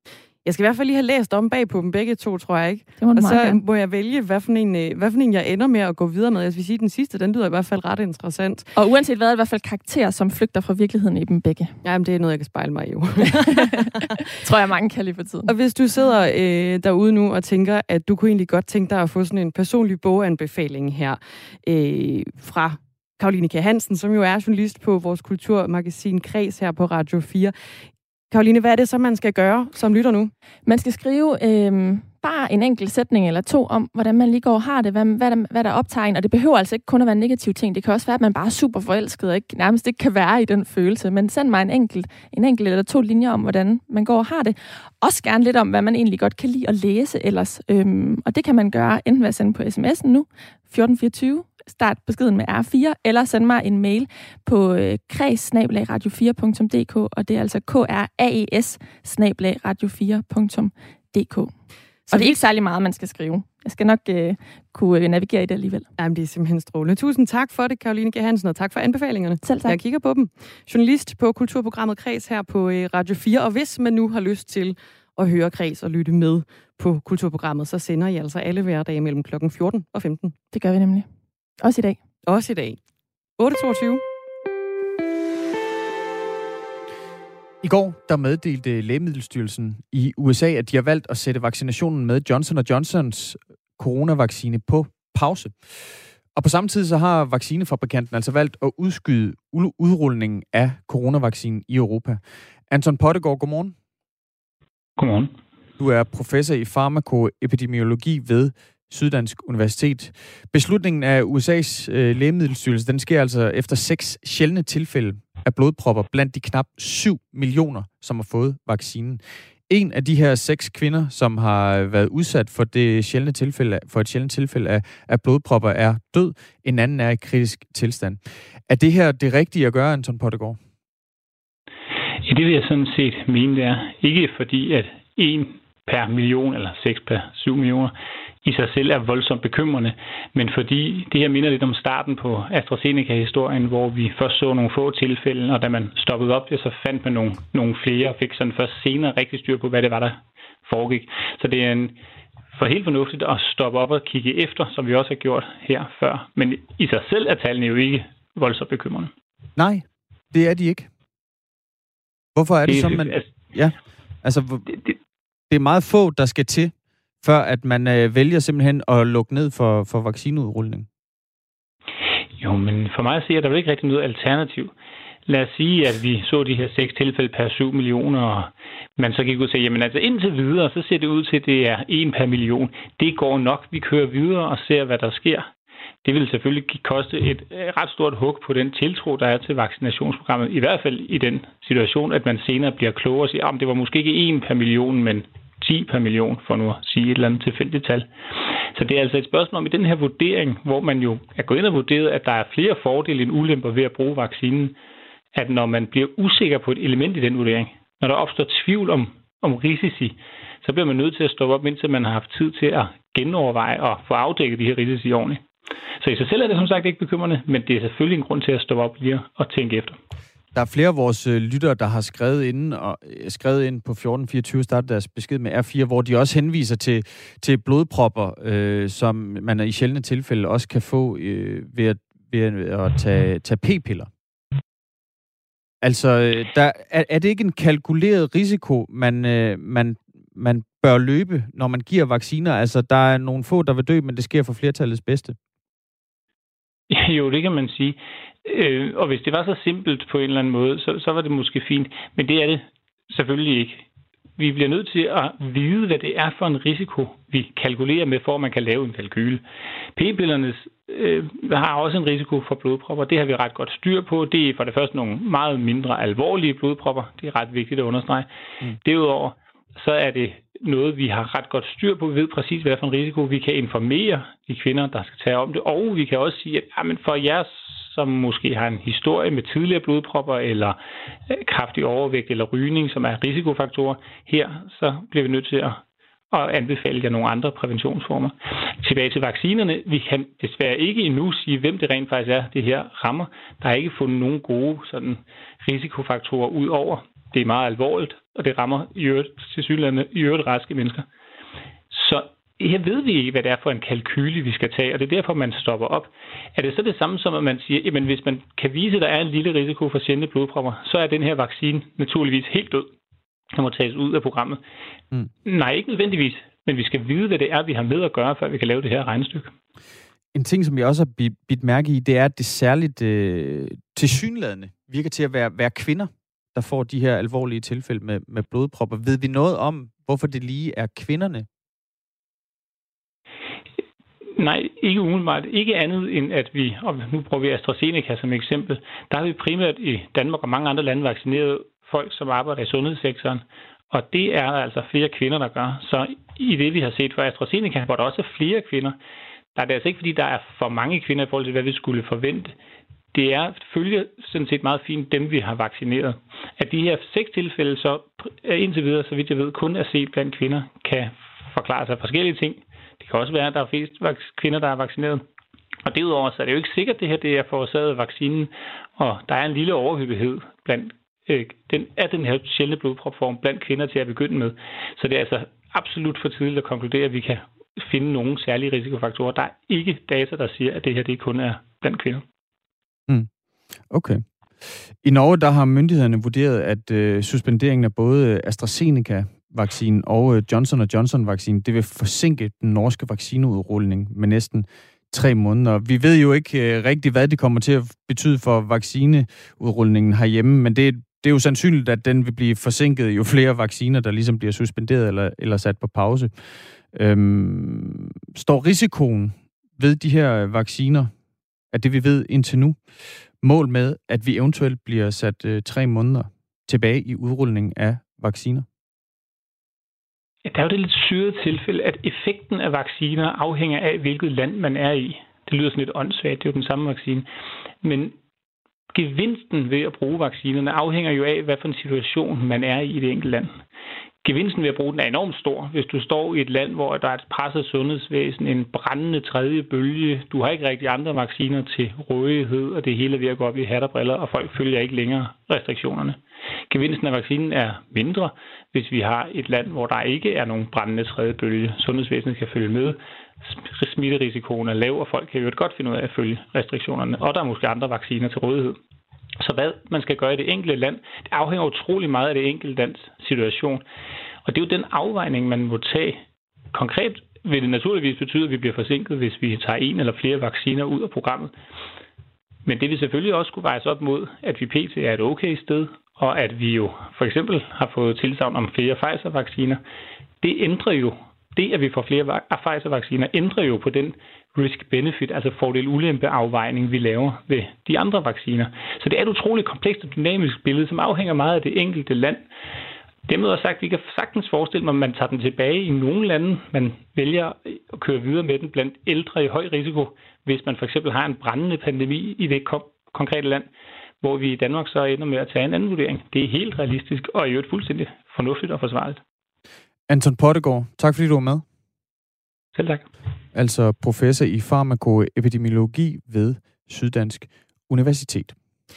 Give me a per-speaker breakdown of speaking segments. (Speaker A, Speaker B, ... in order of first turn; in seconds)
Speaker A: 0.5-8.7, 11.8-14.1, 15.5-27.5, 28.3-30.3, 62.1-62.4, 66.0-80.3, 82.3-82.8, 83.4-84.0
Speaker B: 3.0-3.6, 8.8-11.7, 13.4-15.5, 30.7-61.5, 62.1-65.9, 69.4-69.8, 80.5-81.1, 81.6-82.0
Speaker C: 87.6-103.8, 105.8-130.6, 159.6-160.9, 162.4-164.7, 165.5-170.9, 220.6-234.1, 235.8-245.4, 320.3-331.5, 383.9-384.2, 385.0-406.3, 406.9-411.1, 411.7-412.8, 413.4-418.7, 510.1-511.6, 513.5-518.5
Speaker D: 105.0-105.3, 132.2-152.0, 152.5-159.1, 162.7-163.3, 172.4-174.7, 175.3-185.5, 186.0-198.1, 198.7-204.8, 205.3-215.4, 216.0-220.0, 246.9-253.8, 254.4-259.4, 260.0-268.3, 268.8-280.8, 281.3-285.8, 286.3-301.1, 301.9-312.9, 313.5-314.6, 315.5-319.5, 334.4-349.0, 349.6-352.6, 353.1-365.2, 365.9-382.2, 420.4-427.3, 427.8-428.1, 428.9-433.6, 434.2-446.2, 446.7-458.8, 459.4-463.8, 464.5-466.2, 466.7-471.5, 472.7-479.8, 480.4-492.5, 493.3-503.7, 504.2-509.2, 512.8-513.1